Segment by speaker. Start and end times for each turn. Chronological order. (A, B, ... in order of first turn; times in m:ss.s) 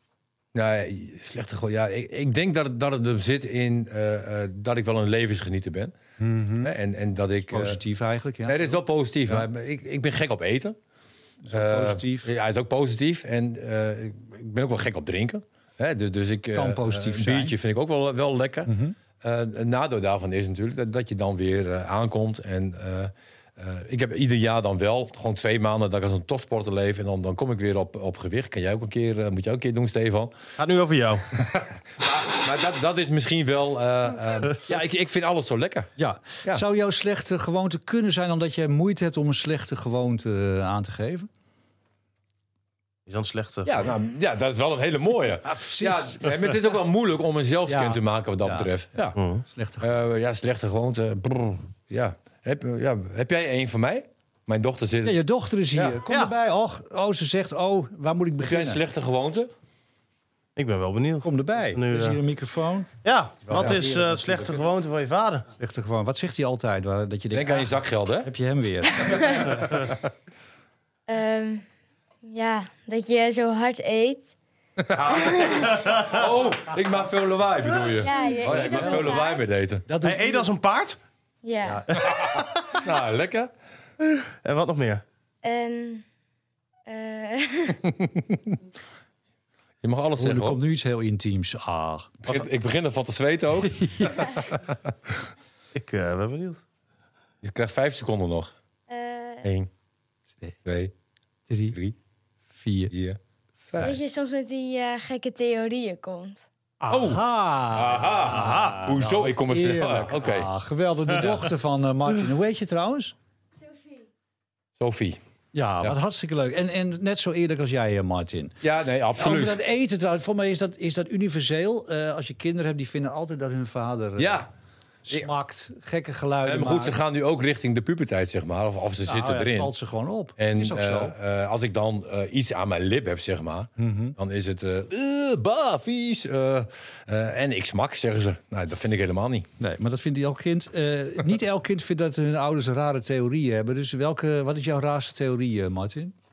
0:00.5-0:06.0 A
0:06.2-0:06.7 B
0:06.6-0:07.8 A
0:07.5-0:09.4 B
0:08.5-0:10.8 A
0:11.4-0:12.3 B
0:11.5-0:30.4 A
0:16.5-0:17.6 B
0:18.7-0:19.0 B
0:30.6-0:31.3 C
0:31.3-0:35.9 A
0:36.0-0:41.3 B
0:43.1-0:43.8 C
0:43.6-0:49.2 A
0:45.4-0:46.6 B
0:47.7-0:48.7 B
0:49.2-0:49.4 C
0:49.5-0:50.0 B
0:49.8-0:55.2 A
0:55.0-0:58.8 B
0:55.7-0:56.0 A
0:58.4-0:59.5 A
1:00.6-1:02.2 C
1:01.2-1:02.9 B
1:03.0-1:05.5 C
1:03.5-1:04.6 B
1:03.5-1:03.8 A
1:05.6-1:09.6 B
1:07.3-1:08.3 A
1:09.1-1:09.5 D
1:11.1-1:11.6 D
1:12.2-1:14.3 D
1:14.8-1:19.8 A
1:15.1-1:15.6 D
1:17.9-1:19.5 D
1:18.4-1:19.1 B
1:19.9-1:20.5 B
1:20.0-1:21.0 C
1:21.4-1:21.9 D
1:21.9-1:22.6 C
1:22.1-1:23.5 A
1:24.0-1:25.0 C
1:25.4-1:26.0 D
1:26.9-1:27.8 D
1:27.8-1:28.6 A
1:29.8-1:30.6 A
1:30.2-1:32.1 B
1:32.2-1:35.3 A
1:33.6-1:34.3 B
1:35.7-1:36.6 C
1:37.4-1:38.5 A
1:38.9-1:39.5 D
1:40.6-1:40.9 A
1:41.5-1:41.8 B
1:42.6-1:42.9 B
1:42.9-1:43.2 A
1:43.7-1:44.0 A
1:43.8-1:46.5 D
1:46.8-1:53.2 B
1:46.9-1:50.5 A
1:48.3-1:48.8 C
1:53.6-1:54.0 D
1:54.8-1:55.2 A
1:55.5-1:58.6 B
1:58.6-1:59.6 A
1:59.2-2:04.4 B
2:04.2-2:04.5 A
2:05.1-2:07.0 B
2:06.4-2:09.7 A
2:09.0-2:11.2 B
2:10.4-2:19.5 A
2:13.8-2:14.2 B
2:19.6-2:26.1 B